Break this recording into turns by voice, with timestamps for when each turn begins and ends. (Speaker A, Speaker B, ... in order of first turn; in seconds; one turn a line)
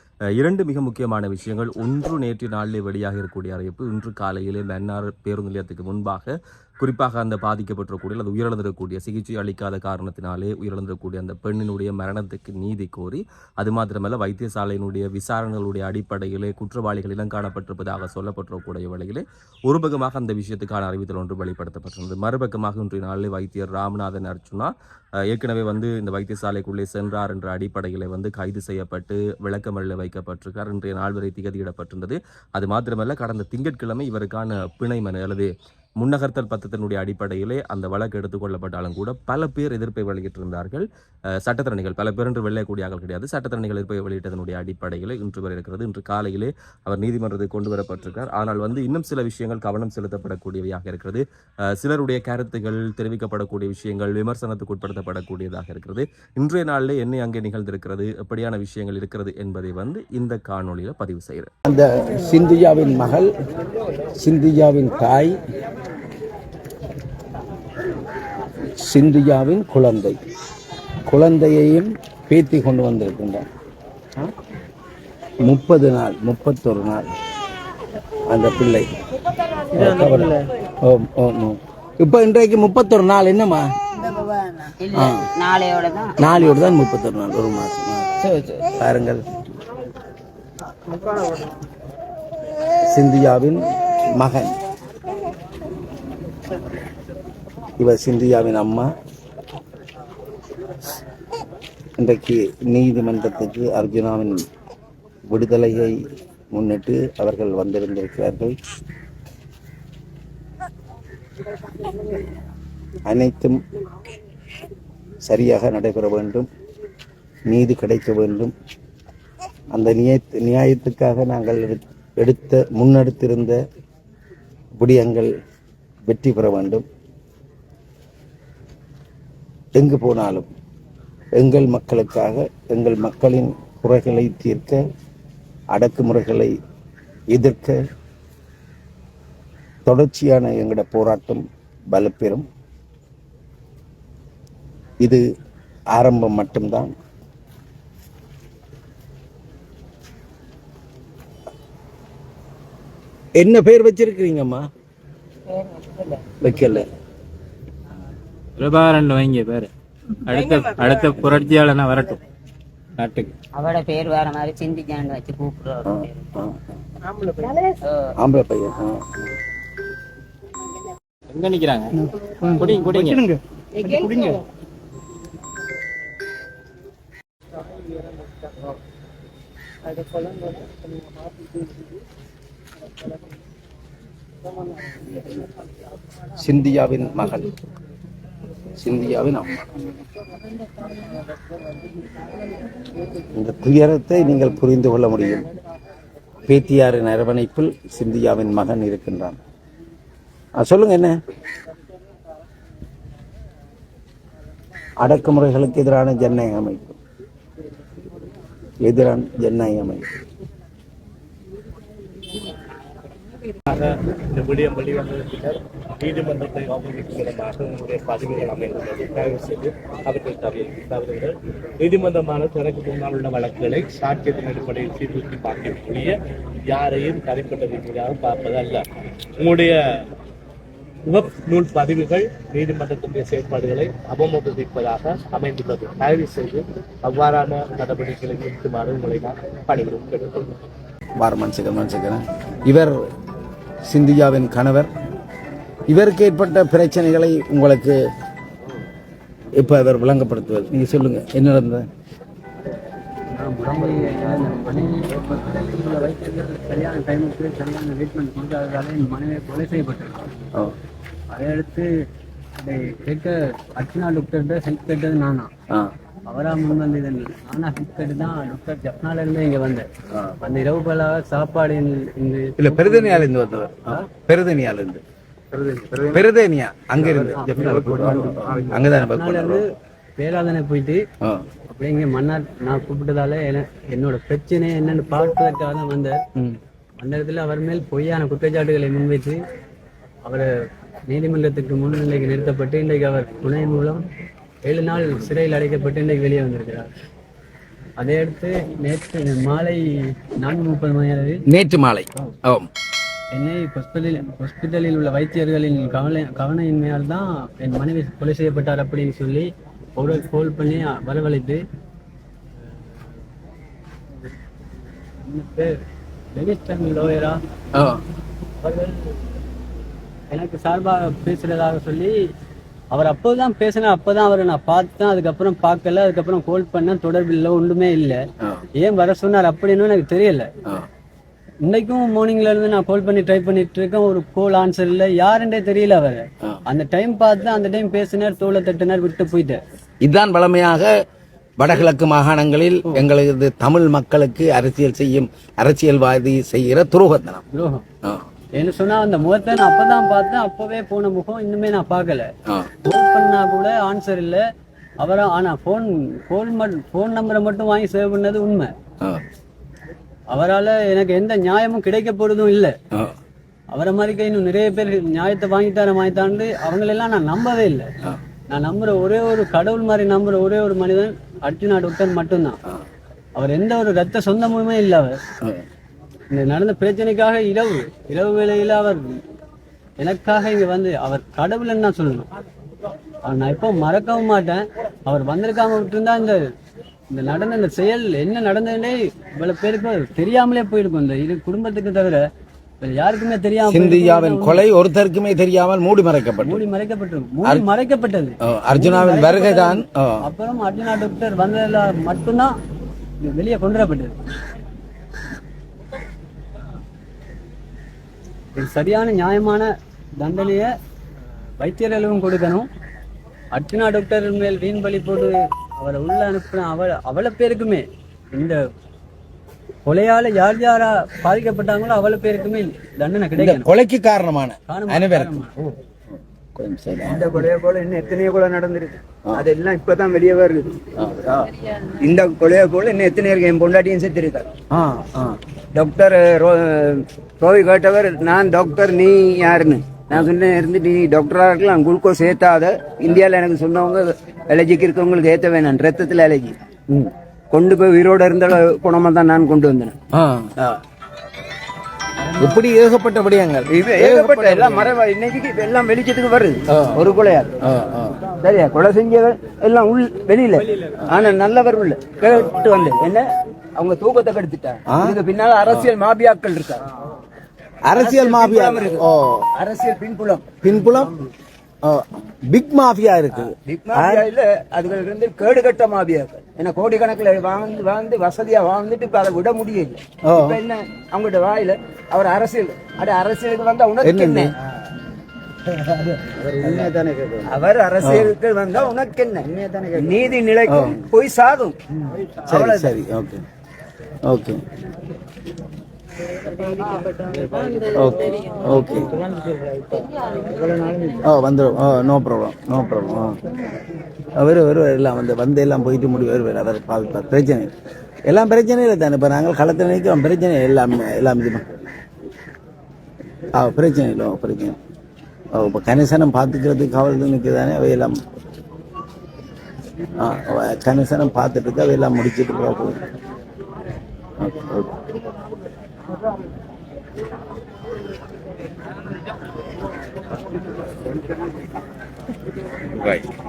Speaker A: 0.3-24.7
Speaker A: 25.3-40.8
Speaker A: 41.4-51.2
Speaker A: 51.8-61.5
Speaker B: 61.6-63.3
Speaker B: 64.2-65.4
Speaker B: 68.7-70.2
Speaker B: 71.0-73.4
Speaker B: 75.4-77.1
Speaker B: 78.3-78.9
Speaker B: 79.7-83.7
Speaker C: 84.0-86.7
Speaker B: 84.9-85.3
Speaker B: 86.2-89.2
Speaker B: 92.9-94.5
Speaker B: 97.8-98.9
Speaker B: 102.0-104.4
Speaker B: 105.3-108.5
Speaker B: 113.0-113.6
Speaker B: 115.2-116.5
Speaker B: 117.5-118.5
Speaker B: 119.7-123.6
Speaker B: 124.8-125.3
Speaker B: 126.1-126.8
Speaker B: 129.7-130.5
Speaker B: 131.3-134.8
Speaker B: 135.7-136.5
Speaker B: 137.3-137.8
Speaker B: 139.8-142.4
Speaker B: 145.9-146.9
Speaker B: 153.3-154.6
Speaker C: 155.5-156.2
Speaker B: 156.4-156.9
Speaker D: 158.6-159.7
Speaker D: 160.2-162.2
Speaker D: 163.0-163.3
Speaker C: 163.5-166.3
Speaker B: 165.8-166.6
Speaker B: 168.2-169.2
Speaker D: 171.3-171.9
Speaker D: 172.5-173.2
Speaker B: 186.4-187.5
Speaker B: 188.8-189.7
Speaker B: 193.3-195.5
Speaker B: 196.5-199.4
Speaker B: 200.6-201.1
Speaker B: 205.0-207.0
Speaker B: 208.8-210.1
Speaker E: 213.7-226.2
Speaker E: 226.7-228.8
Speaker E: 229.4-229.8
Speaker E: 231.1-240.6
Speaker B: 241.2-243.1
Speaker B: 243.9-244.9
Speaker B: 245.9-247.9
Speaker B: 249.6-251.8
Speaker F: 253.3-260.3
Speaker F: 261.3-261.9
Speaker F: 262.6-265.5
Speaker F: 266.3-269.9
Speaker F: 270.4-273.2
Speaker B: 272.6-275.0
Speaker B: 275.9-279.6
Speaker F: 277.4-277.7
Speaker F: 278.5-279.6
Speaker F: 280.2-281.0
Speaker F: 281.7-286.2
Speaker F: 287.0-289.4
Speaker F: 291.1-294.0
Speaker F: 294.6-296.9
Speaker F: 298.0-301.4
Speaker B: 301.5-302.7
Speaker F: 303.3-311.6
Speaker F: 315.2-315.7
Speaker F: 316.3-317.4
Speaker B: 317.7-318.0
Speaker F: 318.6-319.2
Speaker F: 320.3-322.3
Speaker F: 322.9-328.2
Speaker F: 328.8-330.5
Speaker F: 331.6-339.6
Speaker B: 340.0-340.9
Speaker B: 341.6-347.4
Speaker F: 347.5-347.8
Speaker F: 348.6-352.3
Speaker F: 352.8-354.4
Speaker F: 355.0-358.7
Speaker F: 360.3-362.8
Speaker F: 363.7-367.9
Speaker F: 368.5-372.6
Speaker F: 373.4-375.2
Speaker F: 376.3-379.2
Speaker F: 380.0-382.2
Speaker F: 383.2-386.4
Speaker F: 387.1-392.2
Speaker F: 392.8-394.6
Speaker B: 393.7-396.6
Speaker F: 396.4-402.5
Speaker B: 398.4-400.2
Speaker F: 403.2-404.1
Speaker F: 408.5-410.7
Speaker F: 411.6-412.7
Speaker F: 413.5-418.6
Speaker F: 419.8-423.7
Speaker B: 423.4-425.7
Speaker F: 424.7-425.5
Speaker B: 426.6-427.4
Speaker G: 427.1-434.5
Speaker B: 434.7-435.4
Speaker G: 435.7-450.0
Speaker B: 450.1-450.5
Speaker B: 452.4-454.9
Speaker G: 453.7-457.5
Speaker B: 456.7-457.0
Speaker B: 457.6-458.2
Speaker G: 458.4-466.8
Speaker B: 464.9-465.9
Speaker B: 467.8-469.5
Speaker G: 467.9-469.0
Speaker G: 469.5-470.5
Speaker B: 470.6-471.1
Speaker B: 471.8-474.3
Speaker G: 473.4-484.5
Speaker B: 480.2-480.6
Speaker B: 484.0-484.5
Speaker G: 485.7-486.9
Speaker B: 486.4-488.3
Speaker G: 487.4-491.8
Speaker B: 490.7-491.0
Speaker G: 492.5-492.9
Speaker B: 492.5-493.4
Speaker B: 494.2-494.6
Speaker B: 497.9-499.2
Speaker B: 501.2-503.4
Speaker B: 504.3-507.7
Speaker B: 508.3-511.9
Speaker B: 513.5-514.8
Speaker B: 515.5-518.2
Speaker B: 520.2-523.0
Speaker B: 524.4-525.0
Speaker B: 532.9-533.2